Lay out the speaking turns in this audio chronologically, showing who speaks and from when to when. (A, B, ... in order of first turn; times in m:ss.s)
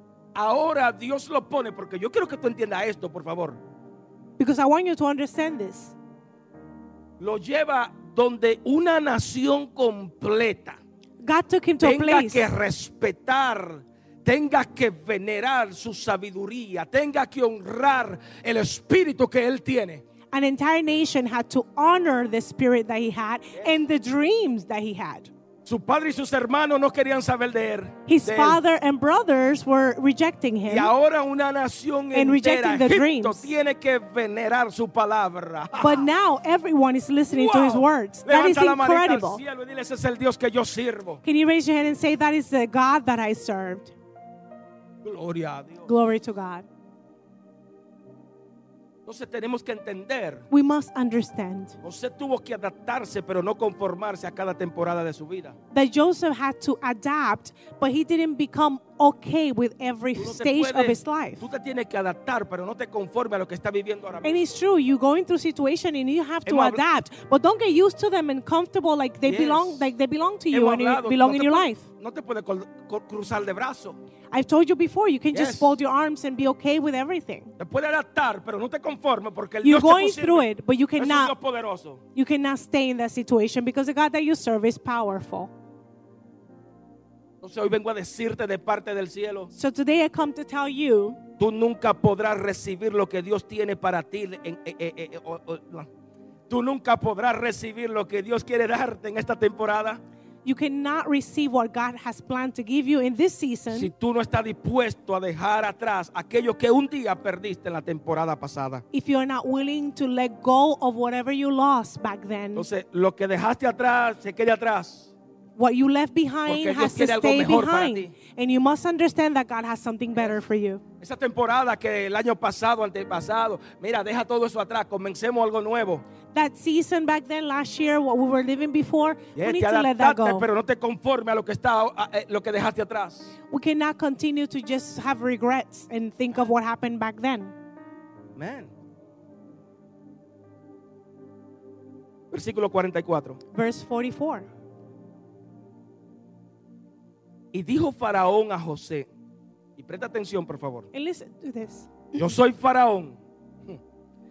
0:00.4-0:03.6 A
0:04.4-0:06.0 B
0:07.2-0:10.8 A
0:11.2-0:12.5 B
0:11.8-0:20.0 A
0:20.3-0:25.3 B
0:23.6-0:23.8 A
0:25.6-0:28.6 A
0:28.1-0:30.9 B
0:30.7-0:36.1 A
0:32.1-0:33.5 B
0:35.8-0:39.4 B
0:37.3-0:41.2 A
0:41.2-0:43.9 B
0:45.0-0:45.9 A
0:45.8-0:46.7 B
0:49.1-0:50.4 A
0:50.5-0:51.8 B
0:51.8-0:55.6 A
0:55.7-1:01.5 B
1:00.2-1:04.4 A
1:04.2-1:11.8 B
1:06.4-1:06.8 A
1:09.3-1:09.9 A
1:10.5-1:14.0 A
1:14.3-1:17.5 B
1:15.3-1:15.8 A
1:17.6-1:22.0 A
1:19.6-1:21.3 B
1:22.2-1:25.5 B
1:27.4-1:29.5 A
1:29.5-1:31.2 B
1:31.4-1:35.9 A
1:36.5-1:40.0 A
1:40.4-1:43.9 B
1:43.7-1:48.8 A
1:48.9-1:52.7 B
1:52.6-1:55.1 A
1:55.6-2:00.8 B
1:56.5-1:58.1 A
2:01.0-2:06.0 A
2:06.3-2:10.5 B
2:09.4-2:13.3 A
2:13.5-2:17.5 B
2:18.4-2:18.7 A
2:22.3-2:23.4 A
2:23.5-2:24.5 B
2:27.5-2:29.1 A
2:29.8-2:30.9 A
2:30.9-2:32.1 B
2:32.2-2:33.8 A